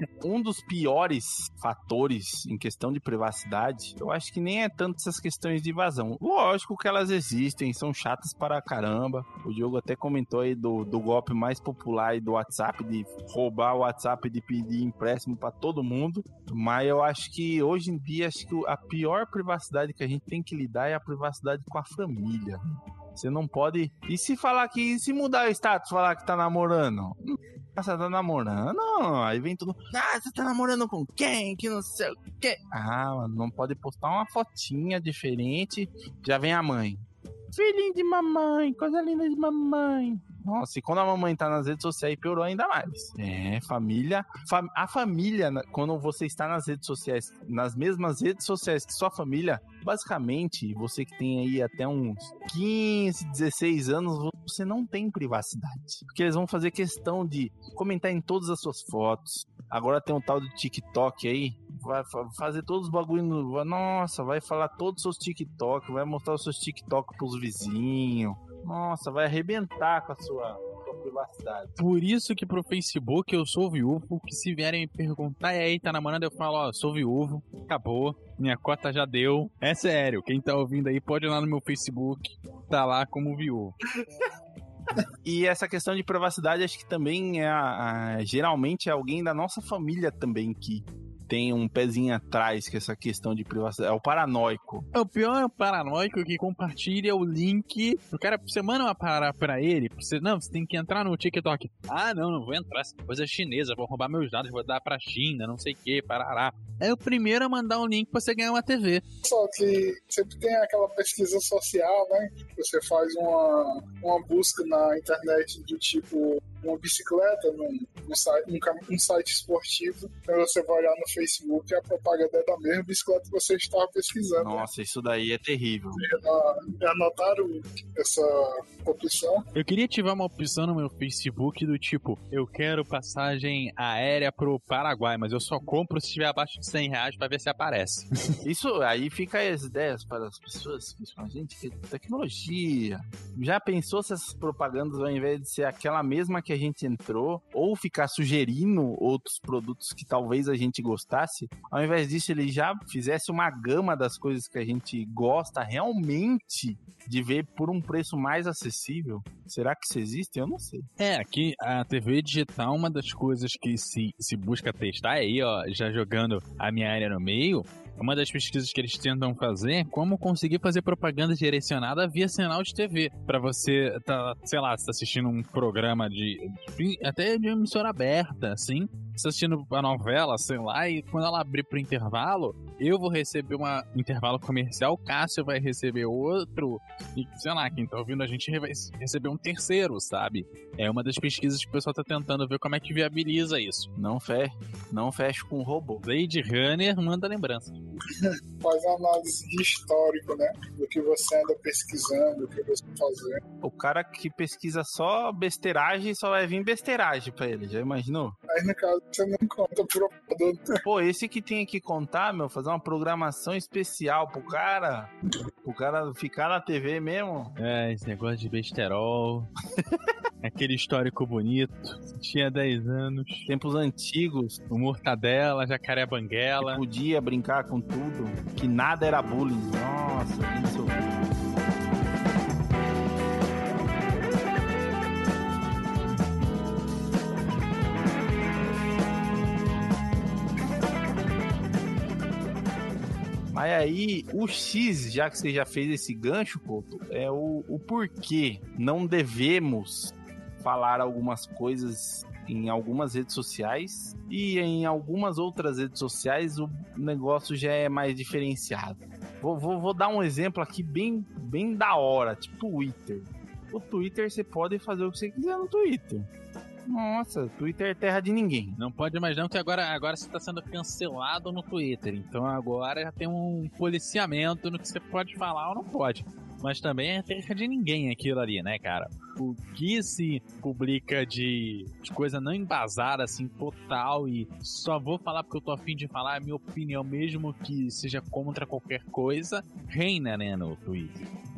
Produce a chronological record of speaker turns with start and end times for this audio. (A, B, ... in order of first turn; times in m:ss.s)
0:00.2-1:11.8 A
1:11.8-1:23.8 B
1:25.2-1:34.9 A
1:34.9-1:49.0 B
1:49.2-2:04.7 C
2:04.4-2:06.0 A
2:06.0-2:09.5 C
2:09.6-2:18.4 B
2:18.4-2:40.9 A
2:41.0-3:13.9 B
3:14.0-3:16.0 A
3:16.0-3:17.8 B
3:18.1-3:23.4 C
3:23.6-3:28.4 A
3:28.5-3:30.8 C
3:30.8-3:35.1 A
3:35.6-3:37.5 A
3:37.6-3:39.5 B
3:40.4-3:43.5 B
3:43.5-3:44.6 A
3:44.7-3:46.8 B
3:46.6-3:51.2 A
4:03.5-4:26.3 A
4:26.9-4:28.8 A
4:28.8-4:51.3 B